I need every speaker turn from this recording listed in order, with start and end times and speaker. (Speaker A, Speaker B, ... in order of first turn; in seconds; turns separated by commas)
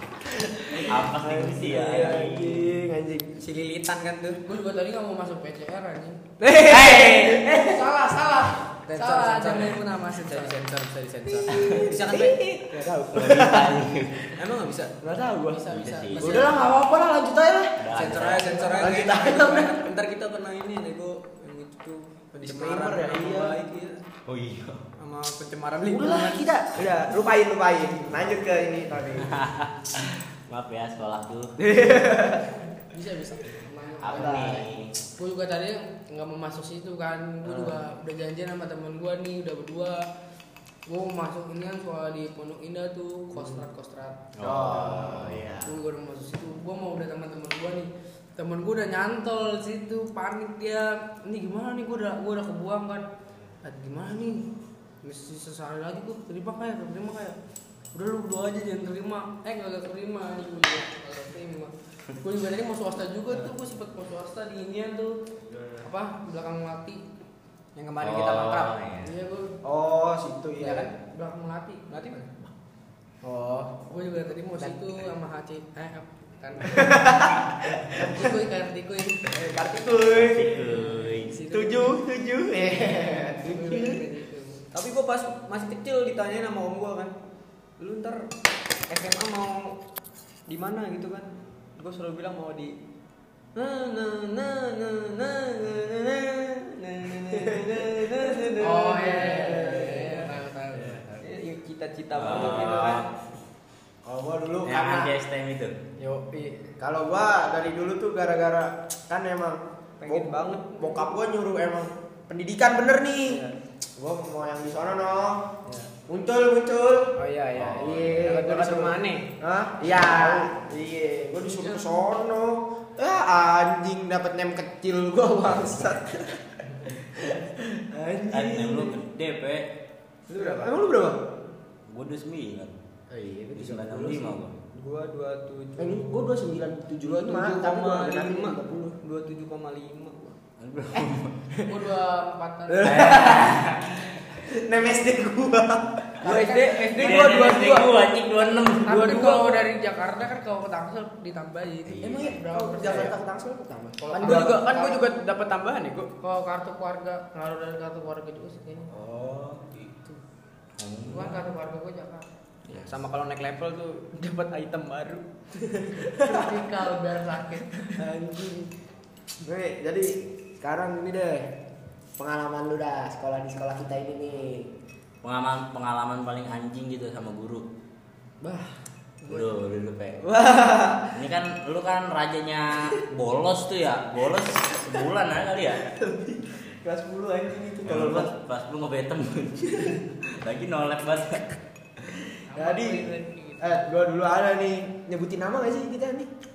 Speaker A: 0.3-3.3, Speaker B: 0.7-2.8, Speaker C: 1.8-2.2, Speaker C: 3.4-4.4, Speaker D: 4.5-6.2, Speaker A: 6.4-7.8, Speaker B: 6.7-7.4, Speaker D: 7.5-10.6, Speaker C: 8.9-12.4, Speaker A: 11.5-13.9, Speaker B: 11.6-11.8, Speaker B: 13.1-14.3, Speaker C: 14.3-14.9, Speaker A: 15.0-17.8, Speaker D: 15.5-16.7, Speaker B: 15.7-16.5, Speaker B: 17.8-18.6, Speaker C: 17.9-24.0, Speaker A: 18.5-19.8, Speaker A: 22.4-23.6, Speaker B: 24.3-24.9, Speaker C: 25.0-26.5, Speaker A: 25.8-29.4, Speaker B: 29.1-31.6, Speaker A: 31.6-32.5, Speaker D: 32.9-40.1, Speaker B: 34.0-34.9, Speaker A: 34.1-34.7, Speaker A: 37.4-37.8, Speaker D: 40.9-44.3, Speaker A: 43.4-43.6, Speaker B: 44.4-45.5, Speaker A: 44.4-45.7, Speaker D: 44.8-53.1, Speaker D: 53.6-54.5, Speaker D: 55.0-57.4, Speaker D: 57.9-65.2, Speaker D: 65.8-67.0, Speaker C: 67.8-68.8, Speaker B: 68.0-69.1, Speaker D: 69.0-69.6, Speaker A: 69.6-70.9, Speaker D: 70.6-71.9, Speaker C: 71.9-72.3, Speaker C: 73.2-73.8, Speaker D: 73.9-77.3, Speaker A: 76.6-78.3, Speaker D: 77.8-79.3, Speaker A: 79.3-80.8, Speaker B: 80.1-81.3, Speaker D: 81.3-81.7, Speaker C: 81.3-81.9, Speaker A: 81.5-84.0, Speaker D: 83.0-84.6, Speaker C: 83.5-83.9, Speaker C: 84.6-87.2, Speaker C: 87.8-88.3, Speaker C: 88.9-89.8, Speaker C: 90.5-92.8, Speaker C: 93.5-100.3, Speaker A: 97.3-98.2, Speaker D: 98.6-101.1, Speaker A: 99.2-100.2, Speaker C: 101.2-103.1, Speaker B: 102.2-103.1, Speaker A: 104.0-105.1, Speaker B: 104.7-105.8, Speaker C: 106.0-106.7, Speaker A: 106.8-113.4, Speaker C: 110.0-111.0, Speaker C: 113.3-113.5, Speaker A: 114.0-115.5, Speaker C: 115.7-115.9, Speaker A: 116.1-117.2, Speaker C: 117.2-119.3, Speaker B: 117.6-118.1, Speaker A: 117.7-129.0, Speaker C: 120.0-120.5, Speaker B: 128.3-129.7, Speaker C: 130.3-130.8, Speaker A: 130.3-131.2, Speaker B: 131.9-132.7, Speaker A: 133.1-134.4, Speaker B: 133.5-134.6, Speaker C: 133.8-134.2, Speaker C: 134.7-136.3, Speaker A: 135.8-139.0, Speaker C: 137.0-140.4, Speaker B: 140.6-141.4, Speaker A: 140.9-141.8, Speaker D: 141.7-143.3, Speaker A: 142.7-147.9, Speaker B: 142.8-144.1, Speaker D: 146.2-146.9, Speaker C: 146.2-147.8, Speaker B: 147.0-149.2, Speaker D: 148.8-153.1, Speaker C: 148.9-149.7, Speaker B: 151.9-152.4, Speaker A: 152.0-155.0, Speaker D: 154.0-154.9, Speaker C: 154.2-156.1, Speaker D: 156.2-158.9, Speaker A: 158.9-159.9, Speaker B: 160.8-161.5, Speaker D: 161.1-162.3, Speaker C: 162.7-165.3, Speaker A: 165.8-166.6, Speaker D: 166.1-167.9, Speaker A: 167.9-168.7, Speaker A: 169.4-171.5, Speaker A: 172.2-174.7, Speaker B: 175.2-177.7, Speaker A: 178.4-178.8, Speaker B: 179.2-180.3, Speaker A: 180.2-181.2, Speaker B: 181.1-185.8, Speaker A: 185.8-188.3, Speaker B: 187.8-191.6, Speaker D: 192.5-193.9, Speaker A: 192.5-196.3